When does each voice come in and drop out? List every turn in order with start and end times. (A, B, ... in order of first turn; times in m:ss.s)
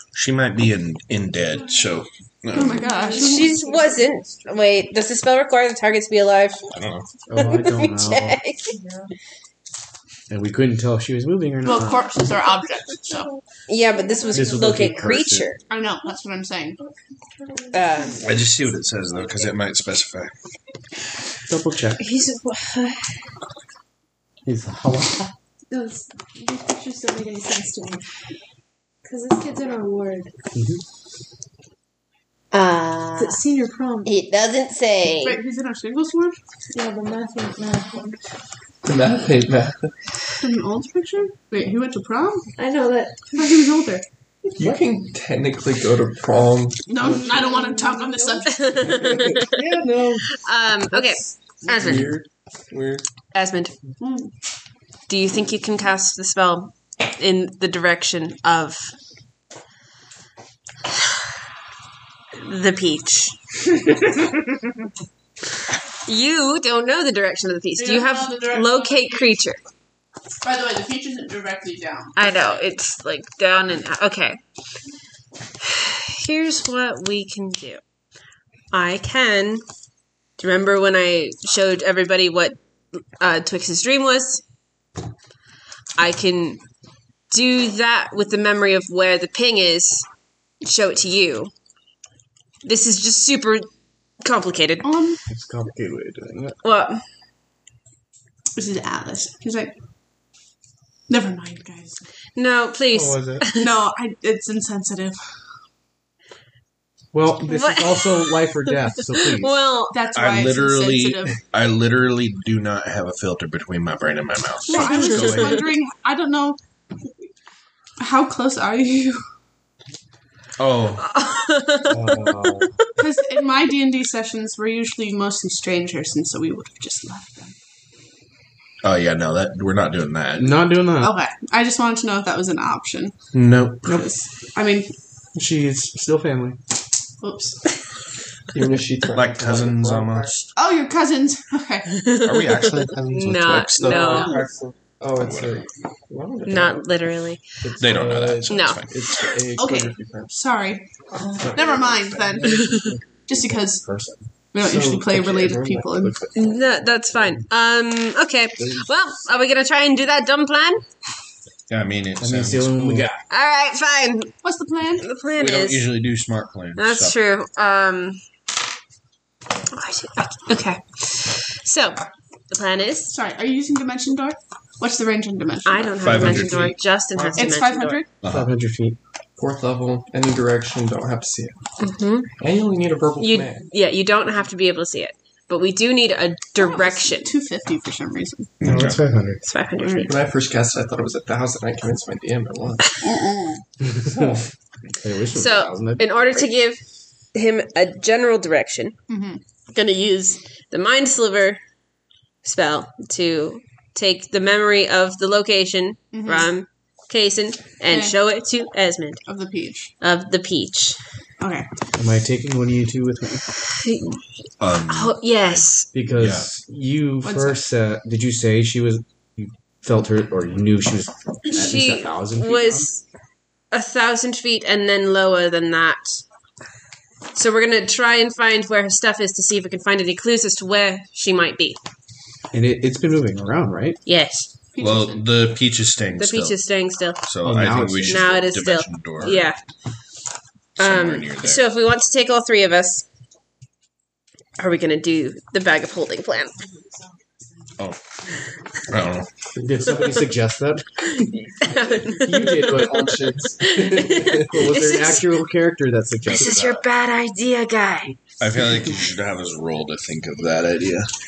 0:00.1-0:02.9 A
0:02.5-0:03.6 B
0:02.8-0:04.5 C
0:03.1-0:06.6 D
0:06.7-0:07.1 A
0:07.3-0:08.4 E
0:07.3-0:08.7 D
0:08.7-0:09.0 C
0:10.3-0:12.2 E
0:11.6-0:13.3 B
0:13.7-0:15.6 D
0:14.2-0:14.4 C
0:14.3-0:15.5 E
0:15.7-0:16.8 B
0:17.7-0:18.4 D
0:17.9-0:18.3 C
0:18.2-0:20.3 A
0:21.5-0:22.0 E
0:22.0-0:23.1 D
0:24.4-0:25.3 E
0:25.7-0:28.0 C
0:29.0-0:30.3 C
0:30.5-0:30.8 E
0:32.5-0:33.4 D
0:33.2-0:34.1 C
0:34.0-0:35.4 D
0:35.2-0:36.4 B
0:36.7-0:38.1 C
0:38.8-0:39.9 F
0:40.4-0:42.5 B
0:42.6-0:43.2 C
0:43.3-0:44.0 B
0:44.5-0:47.2 F
0:46.9-0:49.0 B
0:47.4-0:48.0 C
0:48.5-0:49.5 D
0:48.8-0:50.3 E
0:49.0-0:49.6 F
0:50.3-0:52.2 D
0:51.6-0:53.0 F
0:53.3-0:53.8 D
0:54.0-0:54.3 B
0:55.1-0:58.9 D
1:02.4-1:03.4 D
1:06.0-1:09.6 D
1:07.8-1:09.3 B
1:10.4-1:12.3 B
1:12.2-1:14.4 D
1:15.6-1:17.8 D
1:18.7-1:19.6 D
1:20.4-1:22.6 D
1:23.2-1:24.4 D
1:26.0-1:26.6 D
1:27.3-1:30.0 D
1:30.6-1:31.5 D
1:32.6-1:33.7 D
1:34.2-1:34.9 D
1:34.8-1:35.2 B
1:35.3-1:36.6 E
1:36.6-1:37.0 D
1:38.6-1:39.7 B
1:41.1-1:42.0 B
1:42.4-1:43.7 D
1:42.9-1:43.5 E
1:43.6-1:45.2 B
1:47.1-1:49.6 E
1:47.5-1:48.6 D
1:49.1-1:50.0 D
1:49.9-1:51.4 B
1:50.1-1:55.7 A
1:54.7-1:56.6 B
1:54.8-1:55.3 D
1:58.0-1:59.2 B
2:00.6-2:01.0 A
2:01.0-2:02.7 D
2:01.9-2:02.8 E
2:03.0-2:07.5 B
2:08.8-2:10.7 A
2:10.4-2:11.2 E
2:11.0-2:13.1 B
2:13.3-2:13.9 A
2:13.8-2:14.9 B
2:15.3-2:16.6 E
2:17.2-2:17.6 B
2:18.5-2:20.3 F
2:19.1-2:20.4 A
2:20.5-2:21.9 B
2:22.0-2:24.4 D
2:22.2-2:24.3 A
2:23.7-2:26.9 F
2:25.2-2:25.6 A
2:26.4-2:27.4 D
2:27.6-2:28.4 F
2:27.6-2:28.5 E
2:27.8-2:29.0 A
2:28.5-2:28.8 D
2:28.9-2:30.3 F
2:29.6-2:30.8 B
2:31.2-2:32.9 F
2:31.2-2:35.2 E
2:31.5-2:33.8 B
2:34.5-2:36.2 B
2:35.0-2:36.5 F
2:36.3-2:40.8 D
2:41.7-2:43.1 A
2:42.2-2:43.2 E
2:43.3-2:44.3 D
2:44.4-2:45.0 B
2:45.0-2:45.9 D
2:45.4-2:47.2 A
2:46.8-2:48.2 D
2:49.7-2:53.1 D
2:53.1-2:56.4 B
2:55.6-2:58.0 D
2:56.0-2:57.2 A
2:57.3-2:58.1 B
2:58.2-2:58.5 A
2:58.2-2:59.0 E
2:59.4-3:01.6 F
3:01.8-3:02.3 D
3:02.4-3:03.7 F
3:03.2-3:07.3 D
3:06.6-3:08.5 B
3:08.6-3:09.0 A
3:08.6-3:09.4 E
3:09.4-3:10.2 D
3:10.0-3:13.0 F
3:13.0-3:13.6 B
3:13.8-3:14.4 E
3:14.9-3:16.4 E
3:15.3-3:16.8 D
3:17.3-3:19.0 D
3:19.1-3:19.4 B
3:19.7-3:21.6 D
3:22.4-3:29.2 D
3:26.1-3:26.5 B
3:27.9-3:28.2 B
3:29.2-3:29.9 B
3:30.0-3:31.0 D
3:31.4-3:31.7 B
3:32.0-3:33.4 E
3:33.7-3:34.2 D
3:34.6-3:36.5 A
3:34.9-3:35.9 D
3:35.9-3:42.9 E
3:37.2-3:37.6 B
3:41.5-3:43.0 D
3:43.7-3:46.2 D
3:47.3-3:51.8 D
3:52.5-3:54.0 E
3:54.0-3:54.5 D
3:54.7-3:55.2 B
3:54.8-3:56.6 A
3:56.2-3:57.2 D
3:57.2-3:59.5 A
3:57.4-3:58.3 E
3:58.1-3:59.6 D
4:00.8-4:01.7 A
4:00.8-4:03.0 D
4:04.6-4:06.6 D
4:08.9-4:09.3 A
4:09.6-4:11.3 E
4:11.6-4:15.4 D
4:12.1-4:16.8 E
4:12.6-4:14.5 F
4:16.2-4:16.6 A
4:16.3-4:18.2 D
4:18.4-4:21.1 A